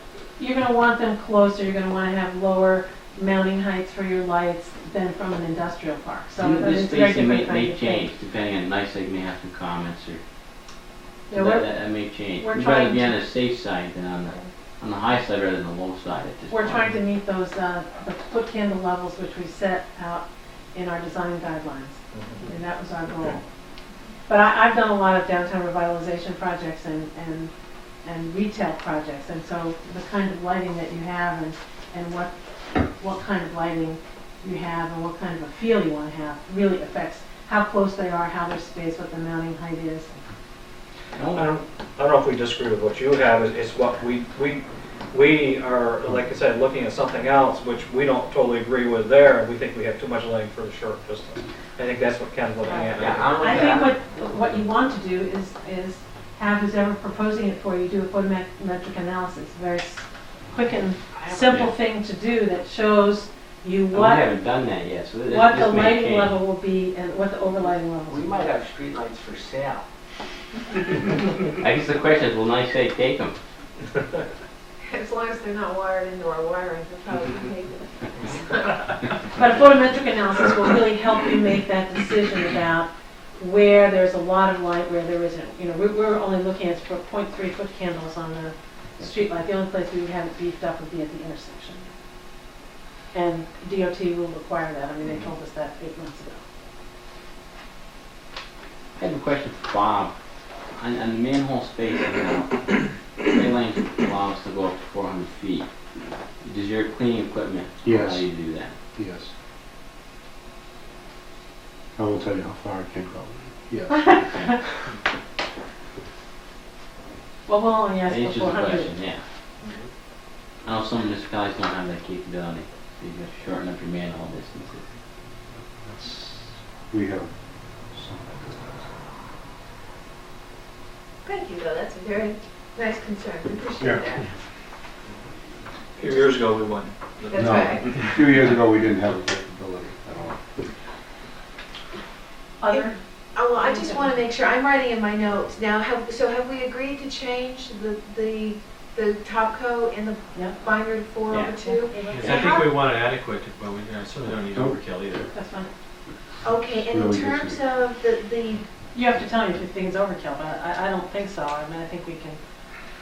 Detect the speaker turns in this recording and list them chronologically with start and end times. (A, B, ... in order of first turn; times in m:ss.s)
0:00.4-0:08.1 A
0:06.4-0:10.2 B
0:11.3-0:11.7 A
0:11.3-0:17.0 B
0:12.4-0:13.2 A
0:16.5-0:23.4 A
0:22.1-0:22.4 C
0:24.3-0:27.5 A
0:28.0-0:32.3 A
0:32.8-0:40.2 A
0:41.1-0:41.5 B
0:41.3-0:53.5 C
0:52.9-0:53.9 D
0:53.4-1:04.3 A
1:01.1-1:01.6 D
1:03.9-1:06.4 B
1:05.3-1:08.5 A
1:08.0-1:09.8 D
1:11.4-1:13.4 B
1:14.8-1:18.9 E
1:19.3-1:31.9 A
1:33.1-1:36.4 A
1:39.0-1:40.1 B
1:40.7-1:45.7 B
1:46.4-1:48.7 B
1:47.8-1:48.3 F
1:48.9-1:49.3 F
1:52.0-1:54.2 F
1:54.1-1:54.5 B
1:54.2-1:54.5 A
1:57.5-1:58.9 A
1:58.1-1:59.2 B
2:00.6-2:04.8 B
2:05.8-2:07.3 F
2:07.9-2:08.9 F
2:11.2-2:14.2 E
2:16.0-2:18.1 C
2:17.3-2:17.9 E
2:17.3-2:20.4 F
2:22.6-2:23.0 A
2:22.7-2:32.7 E
2:23.5-2:24.2 A
2:30.3-2:30.6 A
2:31.6-2:32.7 A
2:32.0-2:35.3 G
2:35.3-2:35.7 A
2:36.4-2:38.7 E
2:36.7-2:37.6 F
2:38.9-2:42.4 A